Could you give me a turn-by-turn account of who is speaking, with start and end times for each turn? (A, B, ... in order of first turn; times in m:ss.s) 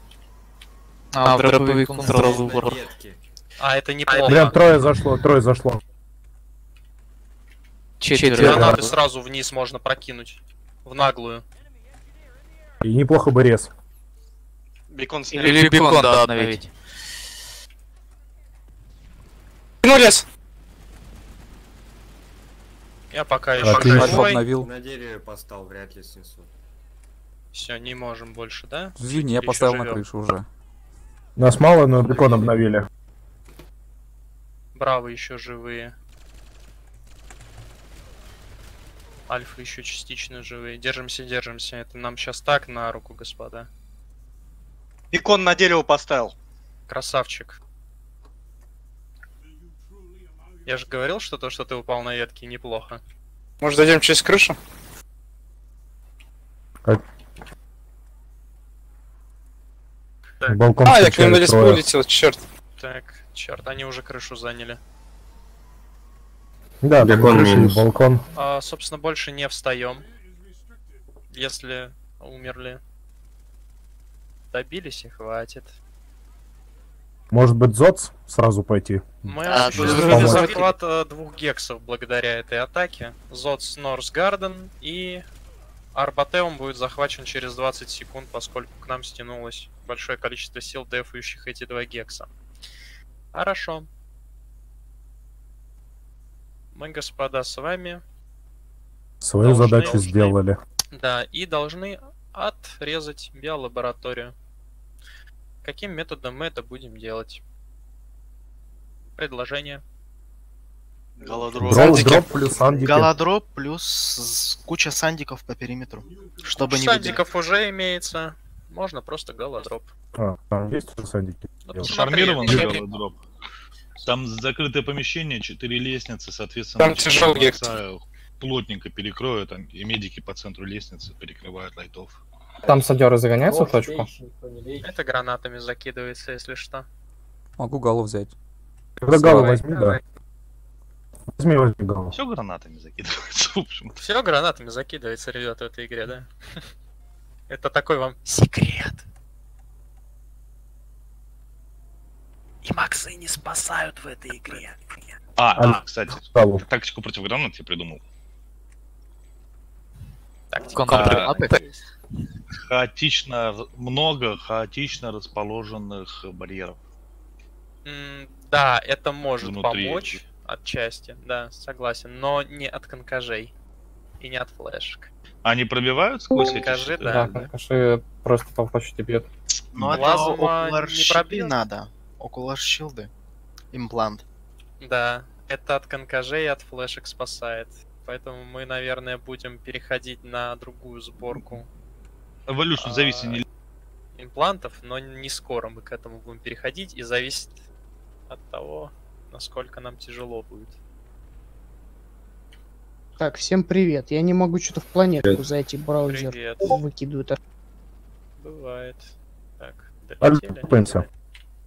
0:01.1-0:02.8 A
0:01.2-0:02.3 B
0:02.1-0:03.2 C
0:03.6-0:04.6 D
0:04.2-0:05.8 E
0:08.0-0:08.9 A
0:08.4-0:11.4 D
0:08.4-0:08.8 E
0:12.8-0:13.7 E
0:14.9-0:16.6 F
0:15.3-0:16.7 A
0:19.8-0:20.2 G
0:23.1-0:24.4 D
0:23.6-0:24.2 E
0:23.7-0:24.7 B
0:24.5-0:26.5 C
0:27.5-0:30.0 D
0:29.0-0:30.5 B
0:31.4-0:32.9 E
0:34.8-0:36.0 D
0:39.3-0:43.7 D
0:45.1-0:46.3 F
0:46.9-0:47.6 D
0:50.6-0:53.0 D
0:53.6-0:54.6 G
1:00.4-1:01.8 E
1:00.8-1:02.4 G
1:02.8-1:04.8 D
1:06.8-1:08.2 E
1:07.0-1:07.8 C
1:08.4-1:10.1 D
1:11.3-1:12.8 D
1:14.5-1:15.8 D
1:17.3-1:20.6 E
1:19.2-1:25.2 D
1:19.5-1:20.7 A
1:25.9-1:32.3 D
1:33.3-1:33.9 D
1:36.7-1:38.0 D
1:39.2-1:40.6 E
1:39.4-1:40.4 D
1:40.9-1:44.4 D
1:45.6-1:47.4 D
1:49.2-1:49.8 D
1:51.2-1:52.4 F
1:51.6-1:53.1 E
1:51.7-1:57.2 H
1:56.6-1:59.9 D
2:00.1-2:01.9 E
2:01.6-2:02.9 D
2:01.9-2:03.2 I
2:04.0-2:12.2 I
2:06.8-2:07.6 G
2:12.6-2:14.1 J
2:14.8-2:16.9 D
2:17.6-2:18.3 B
2:19.0-2:20.0 E
2:19.1-2:20.0 D
2:21.4-2:22.2 E
2:22.1-2:24.0 I
2:24.0-2:26.3 D
2:27.5-2:29.0 D
2:32.6-2:35.0 D
2:35.4-2:38.0 I
2:35.6-2:36.6 E
2:40.5-2:41.4 D
2:40.7-2:41.6 A
2:40.9-2:41.4 I
2:42.6-2:46.8 I
2:47.8-2:53.5 D
2:49.4-2:50.2 I
2:54.2-2:55.1 D
2:55.4-2:57.5 I
2:56.5-2:57.3 D
2:57.1-2:59.3 J
2:59.6-3:03.1 H
2:59.9-3:01.5 D
3:03.7-3:04.2 H
3:04.8-3:11.7 D
3:12.5-3:13.4 I
3:12.8-3:13.4 D
3:14.2-3:17.6 D
3:18.3-3:20.8 D
3:23.2-3:27.4 K
3:26.1-3:26.8 D
3:28.4-3:31.1 D
3:30.2-3:31.1 E